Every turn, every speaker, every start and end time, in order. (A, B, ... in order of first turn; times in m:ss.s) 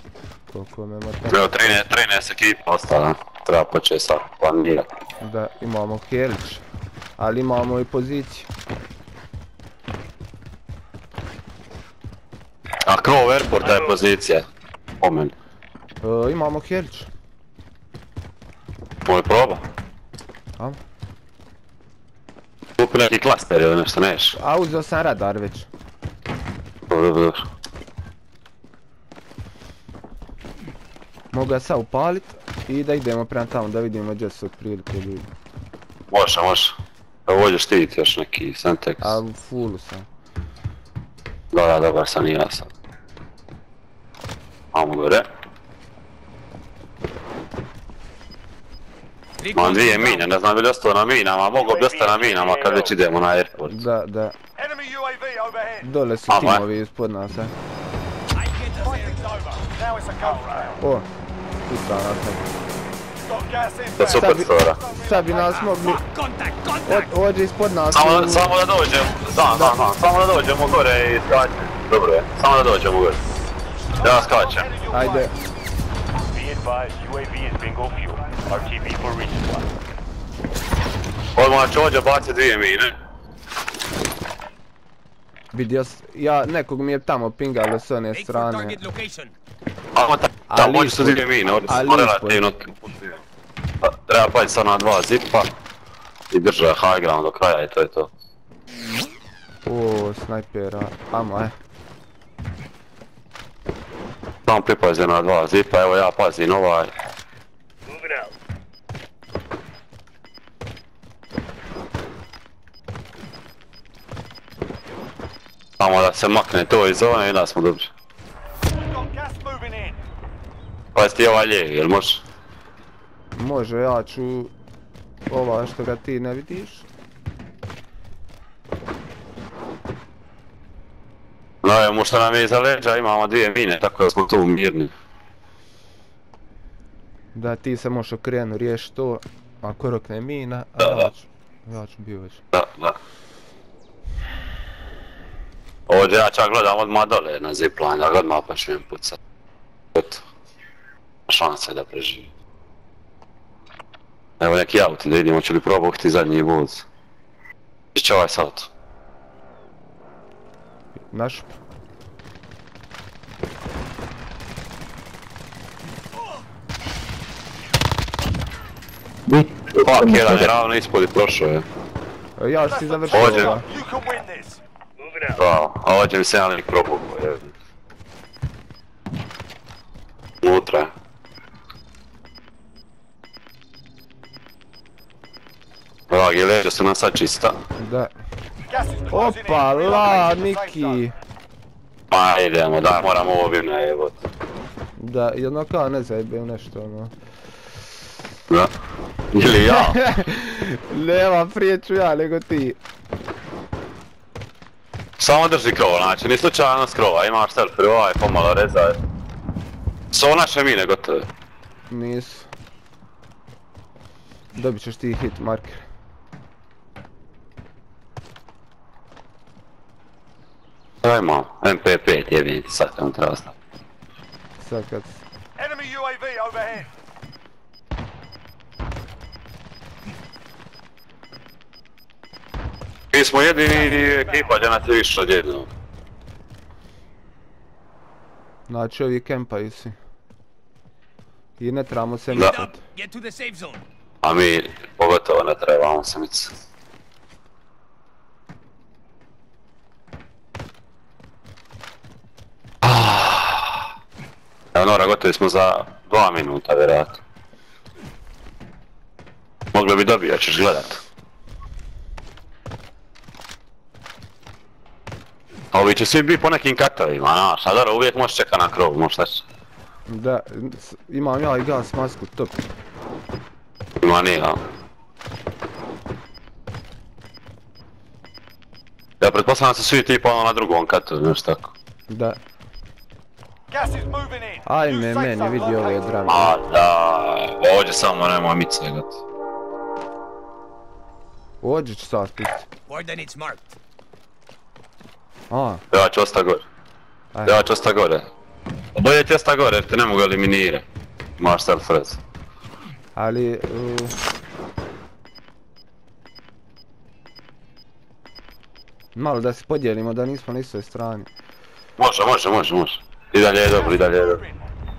0:00.5-0:01.7 A
0:01.3-0:04.8 B
0:05.2-0:06.6 A
0:07.2-0:08.5 A
0:12.8-0:14.5 B
0:15.0-0:15.3 B
0:16.0-0:17.1 A
0:19.0-0:19.6 B
0:22.8-0:24.4 B
0:24.4-0:25.7 A
0:26.9-0:27.4 B
0:31.3-0:35.2 A
0:36.1-0:39.2 B
0:39.0-0:40.1 A
0:41.5-0:42.7 B
0:44.7-0:45.3 B
0:49.4-0:50.3 C
0:49.5-0:53.8 B
0:51.6-0:52.9 D
0:53.7-0:54.4 A
0:54.6-0:55.9 D
0:55.8-0:57.5 A
0:56.3-0:56.6 B
0:58.3-0:59.3 C
0:58.8-1:00.8 D
1:00.8-1:01.1 A
1:01.7-1:02.5 A
1:03.2-1:05.7 D
1:04.0-1:04.8 B
1:04.1-1:06.0 A
1:05.6-1:07.1 C
1:06.8-1:08.5 A
1:07.9-1:13.2 B
1:09.5-1:09.8 A
1:14.0-1:15.3 D
1:14.0-1:14.7 B
1:14.9-1:15.3 A
1:16.3-1:19.7 D
1:21.4-1:22.9 B
1:25.5-1:28.8 A
1:28.1-1:29.3 C
1:30.0-1:33.2 B
1:30.5-1:32.4 A
1:33.8-1:35.5 B
1:36.3-1:38.1 B
1:39.6-1:41.5 A
1:44.4-1:46.9 B
1:47.9-1:48.3 D
1:55.8-1:57.9 B
1:58.7-2:00.0 D
2:00.9-2:02.2 B
2:03.4-2:04.5 A
2:05.3-2:06.9 A
2:11.6-2:14.9 B
2:17.3-2:22.4 A
2:20.8-2:21.1 B
2:22.5-2:23.0 B
2:25.9-2:29.2 B
2:29.9-2:30.2 B
2:31.3-2:32.3 B
2:34.4-2:36.8 B
2:37.9-2:38.7 B
2:41.1-2:41.5 A
2:49.6-2:51.6 B
2:52.4-2:53.6 A
2:52.6-2:55.4 D
2:53.1-2:53.5 B
2:55.3-2:57.5 B
3:00.4-3:00.9 B
3:06.1-3:07.6 B
3:07.8-3:08.1 A
3:08.7-3:11.0 D
3:09.1-3:11.1 A
3:12.1-3:14.2 B
3:15.0-3:17.1 A
3:19.3-3:20.0 B
3:19.4-3:22.8 A
3:25.2-3:29.0 B
3:30.1-3:31.3 B
3:31.9-3:32.5 A
3:34.5-3:35.8 A
3:41.0-3:43.5 B
3:44.6-3:45.2 A
3:45.6-3:46.9 D
3:53.1-3:55.7 B
3:53.8-3:54.5 D
3:58.7-4:00.0 A
4:01.6-4:02.7 A
4:02.3-4:03.8 C
4:04.2-4:06.5 B
4:12.8-4:13.9 B
4:14.7-4:17.2 B
4:19.7-4:21.0 B
4:25.7-4:29.4 B
4:30.1-4:32.6 A
4:34.0-4:34.6 B
4:39.2-4:41.7 B
4:42.1-4:42.4 A
4:43.7-4:46.0 D
4:44.6-4:46.6 A
4:46.3-4:49.2 B
4:51.6-4:52.7 A
4:52.9-4:53.8 C
4:55.5-4:55.8 A
4:55.9-4:56.6 B
4:57.3-4:57.6 A
4:57.4-4:58.3 B
4:58.9-5:00.8 B
5:01.4-5:02.2 B
5:03.2-5:04.2 A
5:09.2-5:11.3 A
5:12.0-5:14.4 B
5:13.7-5:14.5 D